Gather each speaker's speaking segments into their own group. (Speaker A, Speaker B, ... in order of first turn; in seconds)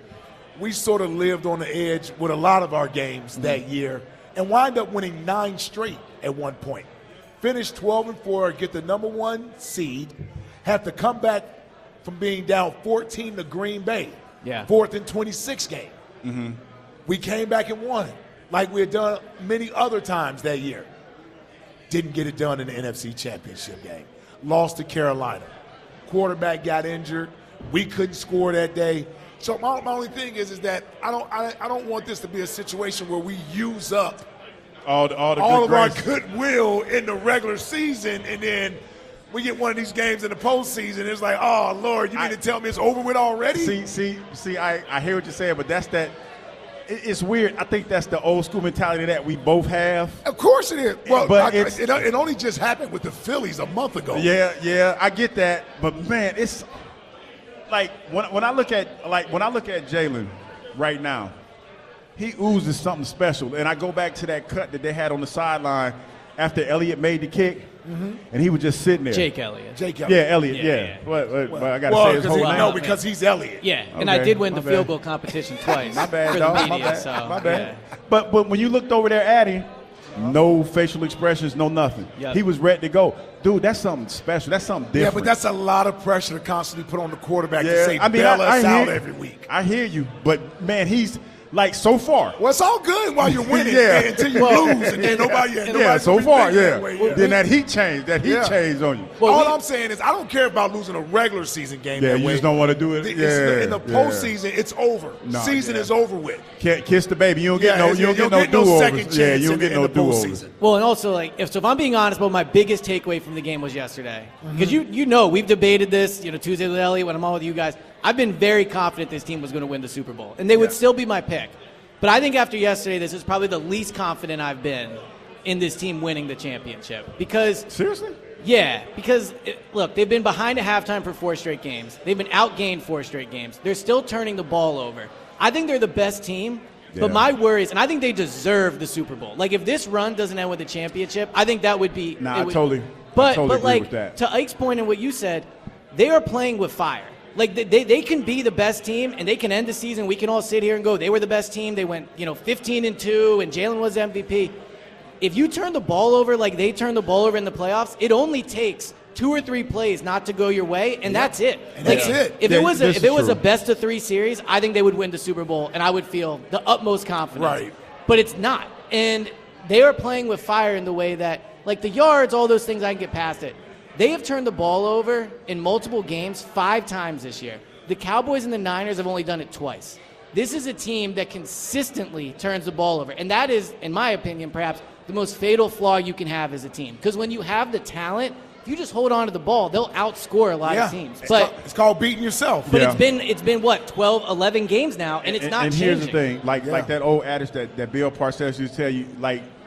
Speaker A: 0.6-6.9, 7.4-10.1, 10.6-15.9, 17.1-20.9, 21.9-25.5, 26.1-34.3, 35.4-38.8, 39.3-43.8, 50.2-54.3, 67.8-68.2, 69.7-70.3, 71.5-73.6, 76.4-77.6, 84.9-89.5, 92.4-97.3, 98.2-98.6, 99.2-106.5, 107.5-110.5, 114.4-114.8, 161.1-162.4, 167.3-167.7, 190.7-192.8, 196.6-196.9
Speaker B: 3.4-3.6, 14.4-14.7, 69.1-69.8, 70.5-71.0, 72.2-73.0, 73.6-77.8, 94.3-96.0, 96.9-97.4, 99.2-99.6, 110.6-127.7, 128.4-154.5, 155.2-191.5, 192.7-196.2
Speaker C: 16.2-16.6, 34.9-36.0, 43.5-46.1, 46.9-50.2, 51.0-52.0, 54.1-56.6, 57.7-61.3, 62.1-67.7, 68.3-69.3, 70.0-72.8, 73.9-74.9, 75.7-85.3, 87.6-92.4, 93.2-99.2, 102.0-104.3, 105.2-105.9, 106.6-110.4, 127.7-128.2, 136.9-137.3, 142.2-144.2, 161.8-163.4, 192.7-193.0, 195.2-199.4